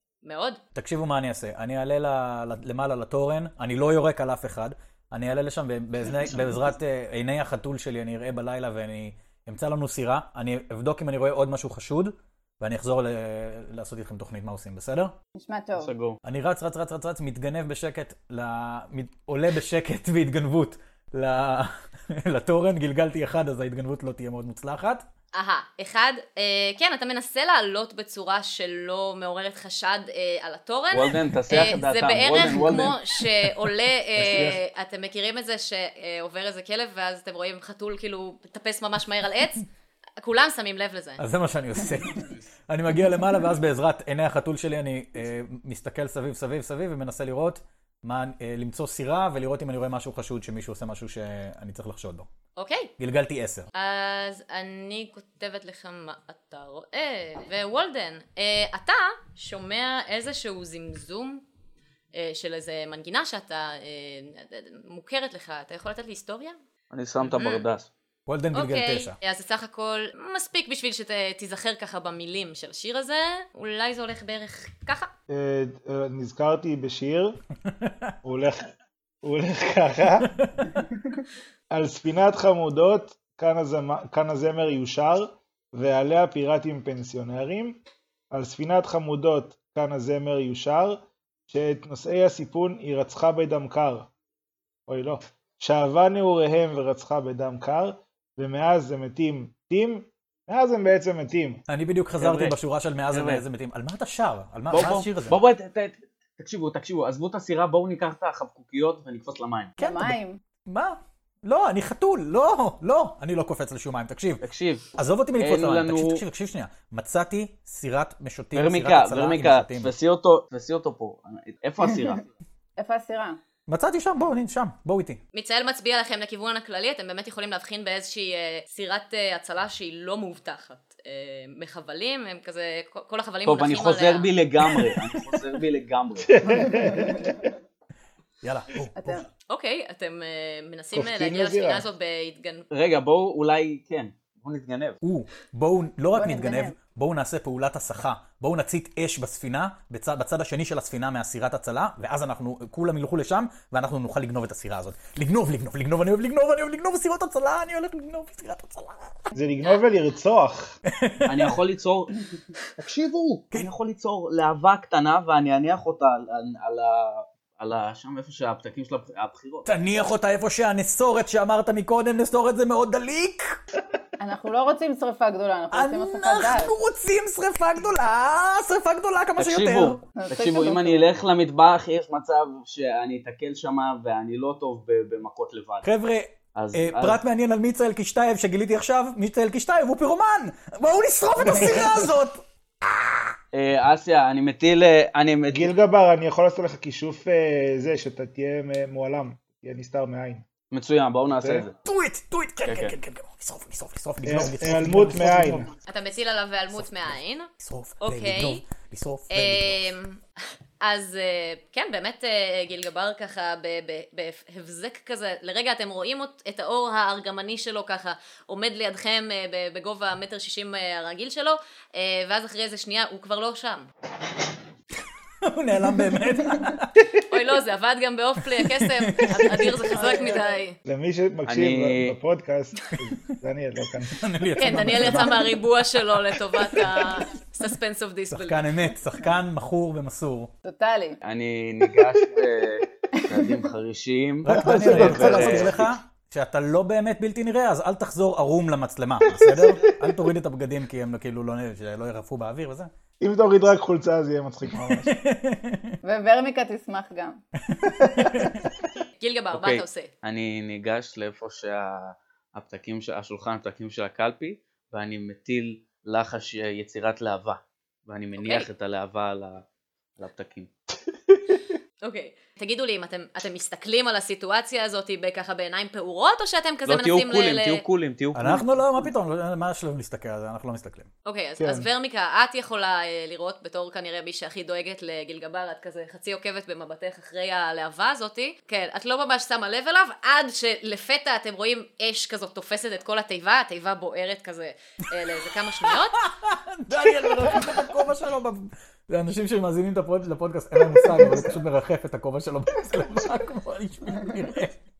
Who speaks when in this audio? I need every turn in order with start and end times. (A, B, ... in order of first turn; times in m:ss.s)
0:00.2-0:00.6 A
0:00.7-0:15.1 B
0:15.4-0:15.9 C
0:15.8-0:16.2 D
0:16.2-0:25.0 B
0:25.3-0:39.6 A
0:30.9-0:33.0 D
0:34.2-0:34.5 B
0:34.3-0:34.6 E
0:40.2-0:41.2 A
0:41.2-0:52.3 B
0:52.6-0:52.9 A
0:53.0-0:53.7 B
0:53.7-1:01.4 A
1:02.1-1:06.6 A
1:06.9-1:07.9 D
1:07.3-1:07.6 A
1:08.3-1:09.2 B
1:08.5-1:15.1 A
1:15.3-1:17.4 E
1:17.7-1:18.1 B
1:18.2-1:18.7 E
1:19.2-1:20.3 E
1:21.7-1:27.8 E
1:28.3-1:34.1 E
1:34.9-1:41.6 E
1:41.7-1:45.4 B
1:42.2-1:42.6 D
1:43.1-1:43.4 D
1:44.7-1:49.7 D
1:49.8-1:54.4 B
1:49.8-1:50.4 C
1:54.4-1:56.2 D
1:55.0-1:59.9 B
1:58.5-2:02.3 D
2:02.8-2:03.4 C
2:03.7-2:05.2 B
2:05.3-2:14.3 A
2:13.4-2:16.4 D
2:16.3-2:17.5 E
2:16.8-2:17.1 C
2:18.4-2:19.2 B
2:18.9-2:19.2 C
2:19.5-2:22.6 A
2:20.9-2:21.9 E
2:22.7-2:25.0 D
2:25.0-2:39.3 B
2:26.1-2:26.8 C
2:39.3-2:40.8 E
2:40.9-2:41.5 B
2:41.3-2:42.2 D
2:42.8-2:49.7 D
2:49.6-2:53.6 B
2:54.2-2:56.7 C
2:55.7-3:00.0 B
2:59.4-3:05.9 D
3:00.2-3:01.1 C
3:05.8-3:13.2 B
3:06.6-3:07.2 D
3:13.5-3:15.7 D
3:15.5-3:20.4 E
3:20.7-3:21.7 D
3:21.8-3:25.7 B
3:22.6-3:22.9 D
3:24.2-3:25.7 E
3:25.9-3:28.6 A
3:26.7-3:29.9 B
3:29.3-3:30.2 A
3:30.8-3:43.9 A
3:45.4-3:47.2 B
3:47.3-3:50.8 A
3:48.4-3:49.9 B
3:49.9-3:50.5 C
3:50.8-3:54.2 E
3:51.4-3:52.2 D
3:54.1-3:55.6 B
3:54.6-3:58.7 A
3:58.3-4:00.5 B
4:00.6-4:01.2 C
4:01.2-4:05.7 D
4:04.4-4:12.9 B
4:04.5-4:05.9 E
4:09.3-4:09.9 E
4:13.2-4:15.2 E
4:14.8-4:16.0 B
4:16.0-4:17.4 C
4:17.6-4:18.6 B
4:17.9-4:18.5 E
4:19.2-4:20.1 A
4:19.5-4:29.6 D
4:28.4-4:28.7 A
4:30.2-4:30.7 D
4:32.0-4:37.8 A
4:36.9-4:38.6 D
4:38.3-4:41.1 B
4:41.2-4:56.2 A
4:41.6-4:41.9 E
4:55.8-5:04.8 B